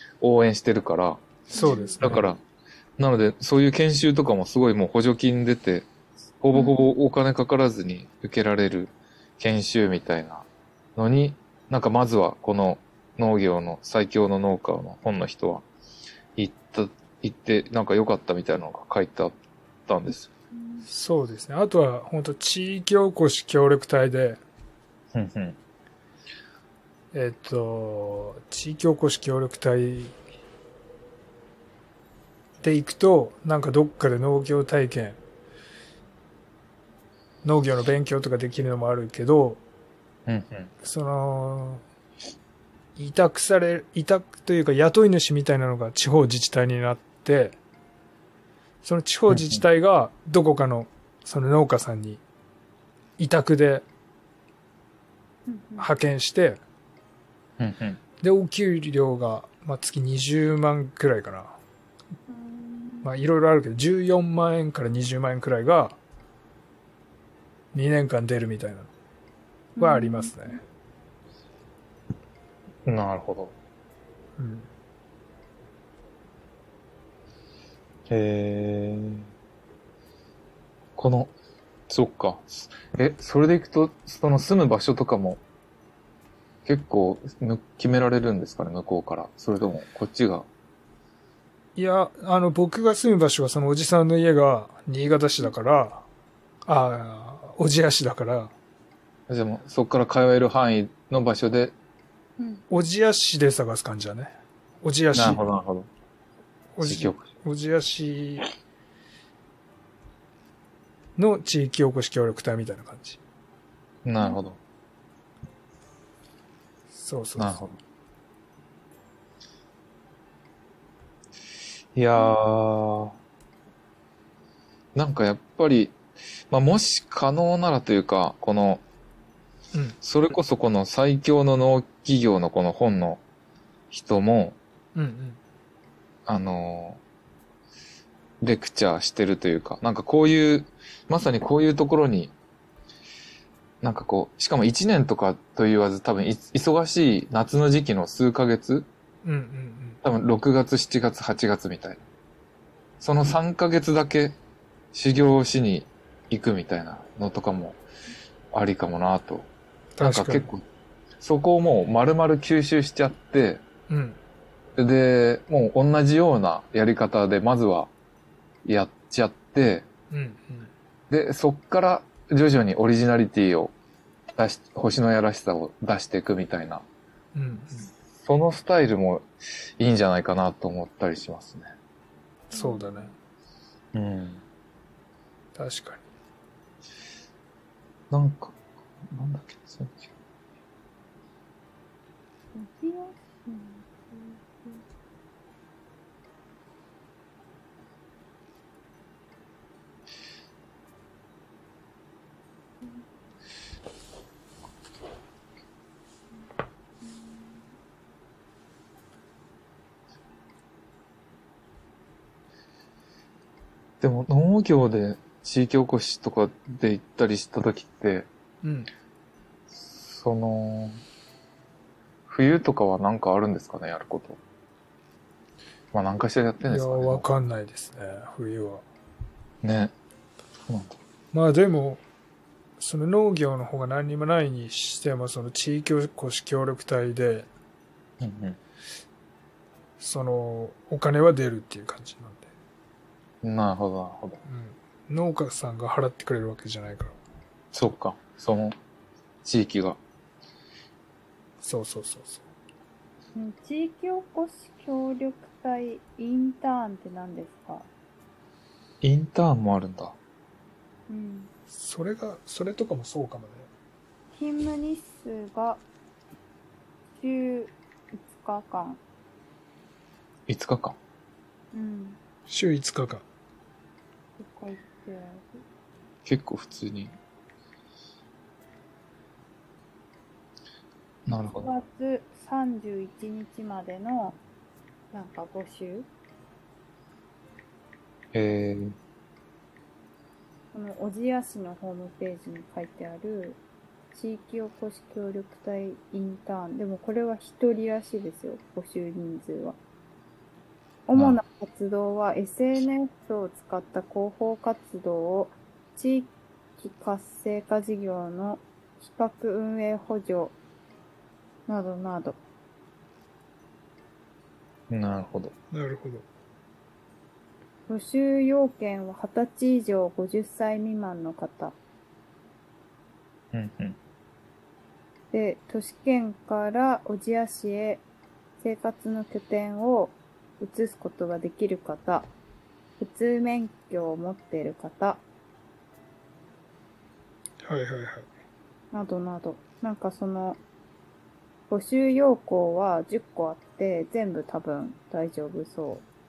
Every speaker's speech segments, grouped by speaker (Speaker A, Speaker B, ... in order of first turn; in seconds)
Speaker A: 0.2-1.3, 2.0-2.4, 3.0-5.9, 6.4-15.7, 16.4-19.3, 19.9-20.3, 25.1-25.6, 40.3-40.7, 49.3-49.6, 57.6-58.0, 72.9-73.5, 78.1-79.3, 81.0-81.3, 81.9-85.4, 86.6-90.5, 99.3-101.7, 105.1-105.9, 106.8-107.3, 114.0-114.6, 117.4-117.8, 121.9-123.1, 124.9-126.0, 126.5-128.8, 130.0-133.2, 133.9-134.6, 136.3-137.0, 138.4-142.3, 143.8-148.9, 150.0-152.0, 153.0-154.4, 154.9-157.8, 158.5-159.5, 160.0-160.6, 161.2-163.6, 164.8-167.9, 168.6-169.9, 171.1-173.7, 174.3-176.8, 178.2-179.3, 179.8-181.7, 183.9-184.4, 188.1-190.1, 214.0-218.3, 219.7-221.0, 222.3-224.4, 225.9-227.2, 229.6-229.9, 230.7-231.0, 238.2-238.6, 243.4-244.4, 247.7-248.8, 249.4-250.0, 259.0-260.1, 270.5-271.0, 276.2-277.1, 281.3-281.7, 288.3-288.9, 301.1-301.4, 314.9-315.5, 323.5-324.0
Speaker B: 1.5-2.3, 20.9-24.4, 27.1-30.1, 32.6-35.2, 37.4-39.6, 40.8-41.8, 43.0-47.5, 48.8-52.2, 53.2-53.8, 55.8-56.6, 58.2-61.6, 63.0-66.0, 67.7-68.9, 69.8-70.6, 74.4-74.7, 91.8-96.0, 96.7-98.5, 102.7-104.3, 104.8-105.4, 106.7-108.5, 111.2-113.2, 116.9-117.6, 134.9-135.4, 149.2-150.0, 160.0-160.5, 163.9-164.2, 170.1-170.7, 177.3-177.9, 182.5-183.1, 185.6-186.1, 218.6-218.9, 226.6-228.8, 231.3-232.0, 232.8-237.5, 240.0-242.5, 244.4-247.2, 251.6-252.4, 261.7-263.7, 272.5-273.2, 315.7-316.3, 337.6-338.3
Speaker C: 1.5-2.0, 6.5-7.0, 20.5-20.9, 55.5-55.9, 62.3-63.1, 69.8-70.6, 102.4-102.6, 182.5-183.1, 192.5-194.8, 207.0-207.5, 253.3-257.9, 261.1-261.5, 264.3-265.8, 267.2-269.0, 271.7-272.2, 274.4-275.6, 281.6-284.4, 285.1-286.1, 290.7-293.6, 294.1-299.8, 301.1-310.6, 311.7-312.4, 317.9-321.7, 325.3-328.0, 328.6-332.3, 333.0-335.2, 338.9-340.6, 341.7-346.1